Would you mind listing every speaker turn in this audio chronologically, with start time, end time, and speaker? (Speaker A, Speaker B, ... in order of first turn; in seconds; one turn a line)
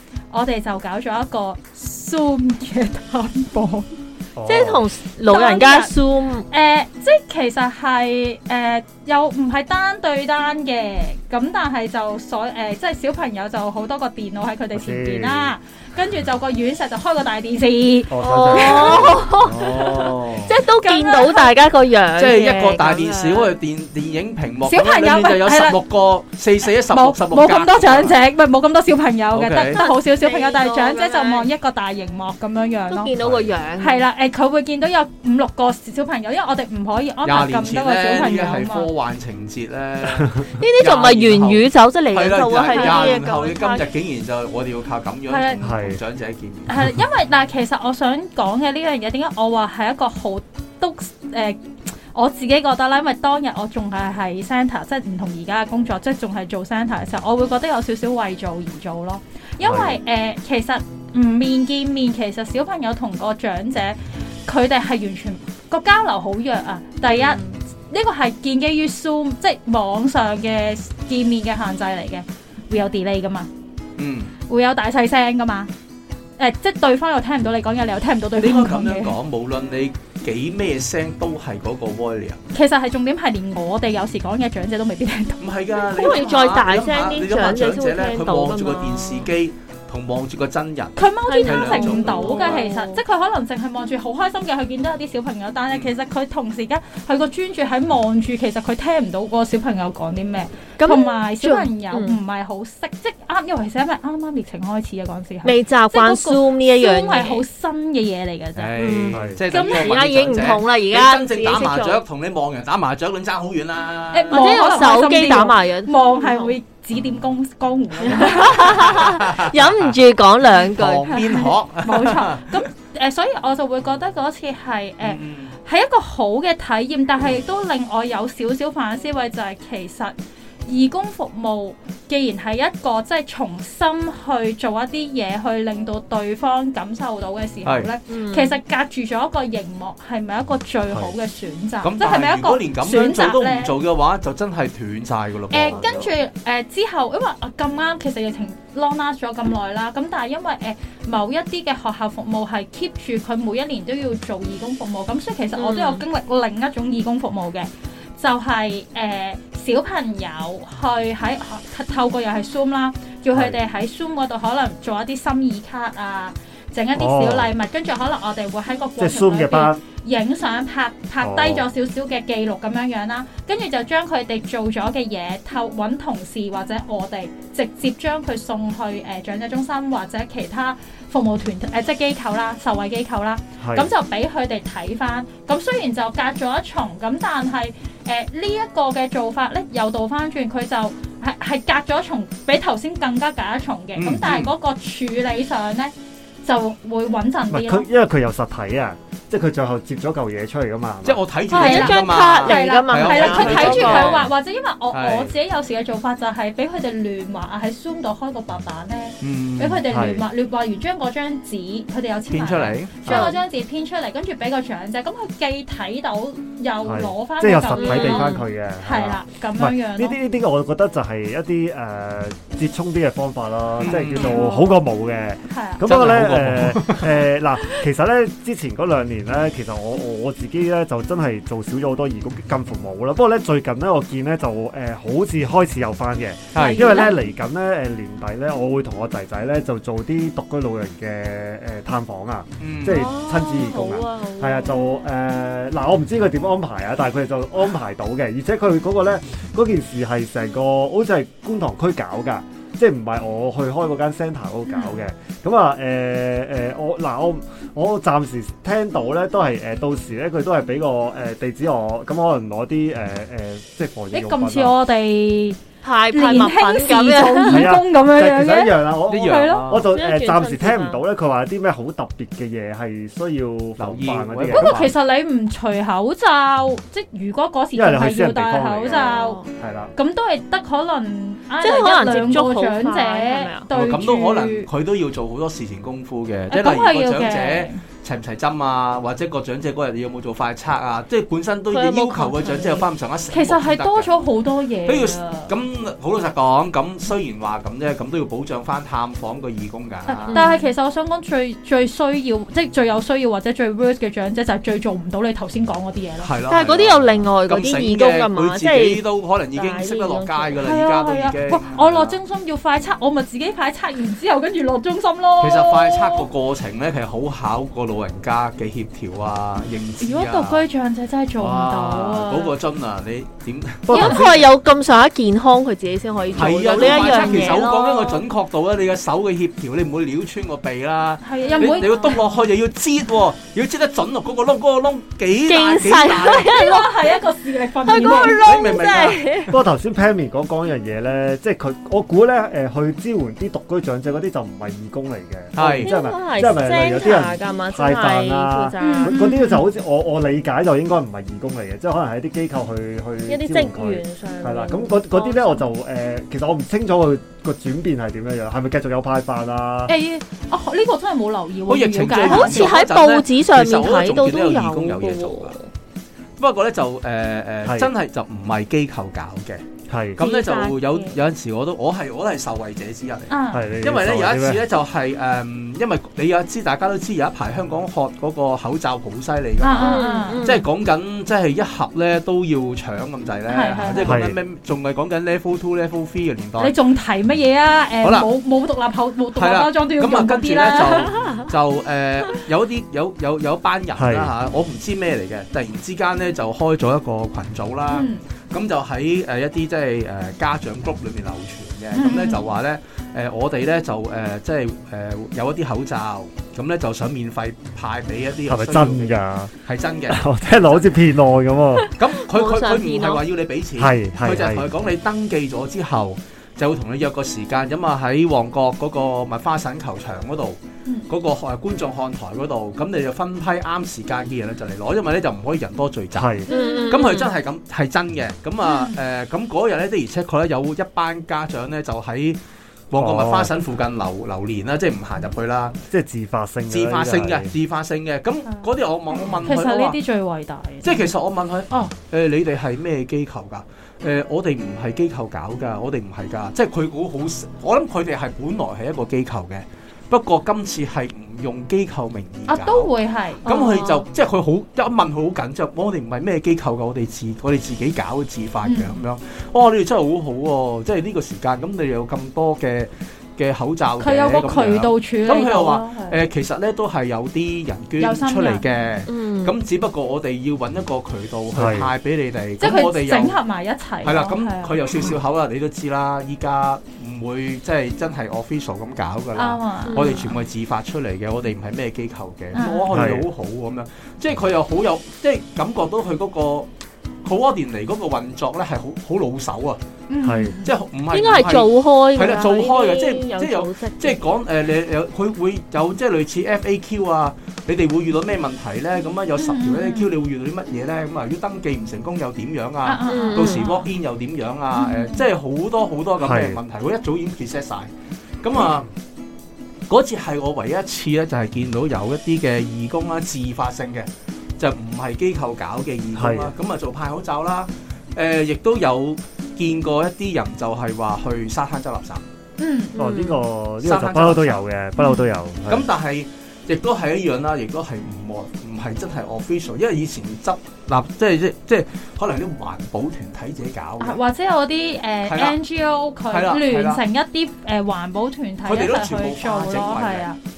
Speaker A: 0.3-3.9
Speaker B: 4.4-4.9
Speaker C: 4.5-6.5
Speaker A: 5.3-6.0
Speaker A: 6.5-19.2
Speaker B: 14.8-15.5
Speaker B: 18.1-19.9
Speaker C: 18.2-23.5
Speaker D: 18.8-20.6
Speaker A: 20.7-21.6
Speaker D: 22.2-28.2
Speaker A: 24.6-25.8
Speaker A: 26.9-33.1
Speaker D: 29.3-29.8
Speaker C: 29.7-31.5
Speaker C: 32.9-34.0
Speaker D: 33.2-33.5
Speaker A: 33.8-38.9
Speaker D: 37.2-46.9
Speaker B: 40.1-40.4
Speaker C: 40.6-43.9
Speaker A: 42.6-43.3
Speaker A: 45.3-45.7
Speaker B: 45.6-46.0
Speaker A: 46.7-73.5
Speaker B: 59.6-60.0
Speaker D: 74.0-74.3
Speaker A: 74.5-75.7
Speaker A: 76.4-79.1
Speaker D: 78.4-82.4
Speaker A: 82.5-86.4
Speaker D: 85.4-92.7
Speaker C: 85.9-89.3
Speaker A: 91.0-108.8
Speaker C: 91.3-93.0
Speaker C: 100.8-102.2
Speaker C: 105.4-107.4
Speaker D: 108.6-114.7
Speaker C: 108.8-112.0
Speaker B: 109.1-109.4
Speaker A: 109.5-110.1
Speaker A: 114.1-119.1
Speaker C: 114.3-116.5
Speaker C: 118.0-121.1
Speaker D: 118.6-120.0
Speaker D: 120.6-122.6
Speaker A: 121.1-130.1
Speaker D: 125.0-125.5
Speaker A: 130.7-143.7
Speaker D: 137.7-137.9
Speaker C: 138.1-138.6
Speaker D: 141.8-146.1
Speaker A: 145.5-195.9
Speaker C: 155.6-156.0
Speaker B: 163.3-163.6
Speaker B: 166.9-167.5
Speaker B: 169.0-169.8
Speaker B: 171.2-171.7
Speaker B: 183.6-183.9
Speaker D: 194.0-194.5
Speaker A: 196.4-197.9
Speaker B: 197.5-201.2
Speaker D: 201.0-204.3
Speaker C: 201.5-204.2
Speaker A: 201.5-220.2
Speaker D: 204.9-205.3
Speaker D: 209.2-209.8
Speaker B: 209.9-210.2
Speaker D: 212.3-213.3
Speaker C: 213.1-213.4
Speaker B: 216.8-264.7
Speaker C: 217.8-218.4
Speaker D: 223.8-224.4
Speaker A: 224.1-224.7
Speaker A: 225.5-225.8
Speaker D: 225.8-227.3
Speaker D: 236.5-237.1
Speaker C: 236.6-237.2
Speaker D: 242.6-243.1
Speaker C: 242.9-244.8
Speaker A: 254.7-255.0
Speaker A: 264.1-265.6
Speaker C: 265.8-267.7
Speaker A: 266.1-269.9
Speaker B: 267.5-274.8
Speaker D: 269.1-269.9
Speaker C: 269.9-271.0
Speaker D: 273.8-274.9
Speaker A: 274.5-279.4
Speaker B: 277.7-279.9
Speaker C: 278.9-279.5
Speaker A: 280.0-284.7
Speaker C: 281.6-283.7
Speaker D: 283.7-294.2
Speaker A: 286.5-287.8
Speaker C: 291.7-292.9
Speaker A: 293.3-295.6
Speaker D: 294.9-300.4
Speaker C: 300.1-300.6
Speaker A: 300.1-306.3
Speaker D: 306.2-312.2
Speaker C: 306.5-309.0
Speaker C: 309.5-310.6
Speaker A: 310.6-316.3
Speaker D: 315.4-320.6
Speaker A: 320.0-322.6
Speaker D: 321.4-323.9
Speaker B: 323.9-324.4
Speaker A: 323.9-324.3
Speaker C: 323.9-328.2
Speaker D: 326.3-336.6
Speaker A: 326.7-327.7
Speaker A: 331.2-332.3
Speaker C: 331.5-332.2
Speaker C: 335.5-337.2
Speaker A: 336.4-338.5
Speaker C: 337.9-339.5
Speaker D: 337.9-339.5
Speaker B: 339.5-359.9
Speaker D: 345.5-345.9
Speaker C: 345.8-349.3
Speaker A: 348.8-349.7
Speaker C: 353.3-355.6
Speaker A: 359.9-362.8
Speaker D: 361.7-365.5
Speaker C: 362.2-365.7
Speaker D: 366.4-369.6
Speaker B: 367.6-367.9
Speaker B: 369.9-370.2
Speaker C: 370.2-371.1
Speaker D: 370.2-386.7
Speaker A: 373.3-373.7
Speaker B: 373.5-374.6
Speaker A: 379.6-380.5
Speaker C: 379.7-380.6
Speaker A: 383.5-384.1
Speaker B: 384.0-384.4
Speaker A: 386.6-391.2
Speaker D: 388.0-388.3
Speaker D: 389.4-411.0
Speaker B: 394.0-394.3
Speaker A: 397.9-398.2
Speaker A: 401.9-402.5
Speaker B: 408.5-409.5
Speaker B: 410.1-411.9
Speaker D: 411.9-420.6
Speaker C: 412.3-413.2
Speaker B: 413.8-414.7
Speaker D: 421.1-426.3
Speaker B: 426.1-426.5
Speaker A: 426.5-427.2
Speaker C: 426.5-427.3
Speaker D: 426.9-432.4
Speaker A: 428.6-429.0
Speaker D: 432.9-435.8
Speaker B: 433.0-433.5
Speaker B: 435.9-437.5
Speaker D: 436.7-440.0
Speaker A: 439.3-441.1
Speaker D: 440.8-452.9
Speaker A: 452.5-453.4
Speaker D: 453.4-473.4
Speaker C: 453.4-454.0
Speaker A: 458.6-459.0
Speaker A: 464.0-466.3
Speaker A: 468.0-468.6
Speaker C: 469.1-469.6
Speaker B: 471.5-471.9
Speaker A: 472.6-474.8
Speaker D: 474.0-486.7
Speaker A: 479.4-480.3
Speaker C: 479.9-480.3
Speaker A: 482.6-482.9
Speaker B: 482.9-483.3
Speaker D: 487.2-489.8
Speaker A: 490.1-490.7
Speaker B: 490.2-490.5
Speaker D: 490.6-507.9
Speaker C: 491.1-494.2
Speaker A: 499.4-500.1
Speaker A: 502.8-503.9
Speaker C: 503.1-503.7
Speaker A: 504.7-505.3
Speaker B: 506.2-506.6
Speaker D: 508.4-508.9
Speaker D: 509.9-522.2
Speaker B: 516.1-516.5
Speaker A: 522.6-523.0
Speaker C: 523.0-523.4
Speaker B: 523.0-525.9
Speaker D: 523.8-524.6
Speaker A: 525.0-525.2
Speaker D: 525.7-534.2
Speaker A: 534.0-540.4
Speaker D: 535.3-535.6
Speaker D: 536.3-537.0
Speaker D: 538.6-540.3